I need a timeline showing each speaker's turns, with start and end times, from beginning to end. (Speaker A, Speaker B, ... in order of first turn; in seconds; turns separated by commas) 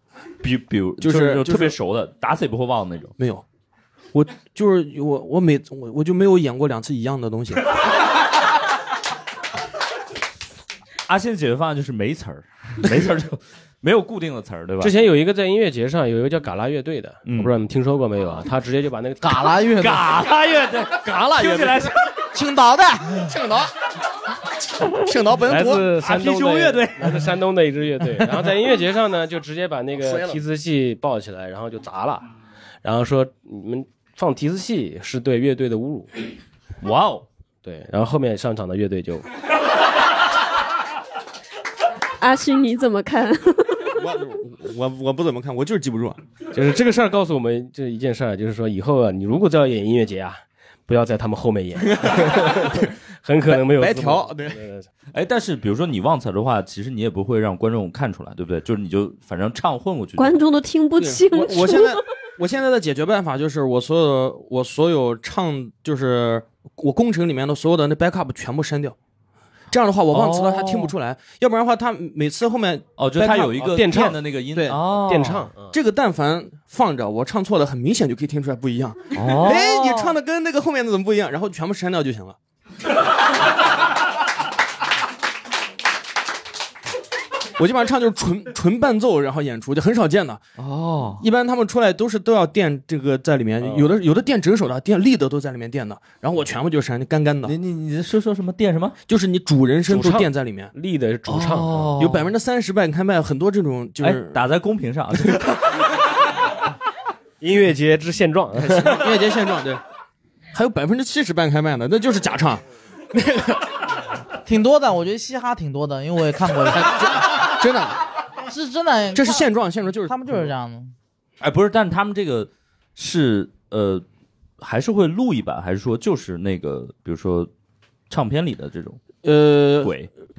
Speaker A: 0.4-3.1, Speaker B: 1.0-1.7, Speaker B: 3.2-3.4, Speaker B: 4.1-7.7, Speaker A: 11.1-14.9, Speaker C: 14.8-19.5, Speaker A: 17.2-17.5, Speaker D: 19.2-20.1, Speaker A: 19.8-22.1, Speaker B: 21.1-21.7, Speaker D: 22.3-23.4, Speaker B: 23.3-23.7, Speaker B: 24.9-26.0, Speaker C: 25.4-32.3, Speaker A: 26.0-27.2, Speaker B: 30.0-30.4, Speaker C: 32.8-36.1, Speaker A: 36.8-37.2, Speaker C: 37.6-39.2, Speaker E: 42.2-43.9, Speaker B: 43.9-46.2, Speaker C: 46.5-54.9, Speaker B: 53.5-54.5, Speaker A: 55.1-60.4, Speaker E: 60.2-62.0, Speaker B: 61.0-69.0, Speaker B: 69.7-73.8, Speaker A: 70.1-70.9, Speaker A: 73.0-75.5, Speaker C: 73.6-74.2, Speaker B: 74.5-74.8, Speaker C: 74.7-75.8, Speaker B: 75.7-82.3, Speaker A: 79.1-80.2, Speaker B: 87.6-90.4, Speaker A: 90.6-91.2, Speaker B: 91.2-97.5, Speaker C: 93.6-93.9, Speaker A: 97.5-99.0, Speaker B: 99.1-100.7, Speaker C: 99.9-101.9, Speaker A: 101.3-102.3, Speaker B: 102.0-104.3, Speaker A: 104.0-105.7, Speaker C: 107.4-109.2, Speaker B: 108.7-109.8, Speaker B: 110.5-113.5, Speaker D: 114.5-116.9, Speaker B: 116.7-118.0, Speaker D: 118.5-119.4, Speaker B: 119.1-120.2, Speaker D: 120.1-120.9, Speaker A: 121.4-124.0, Speaker A: 124.6-127.5, Speaker A: 128.1-129.0, Speaker B: 129.2-129.9, Speaker A: 129.8-130.1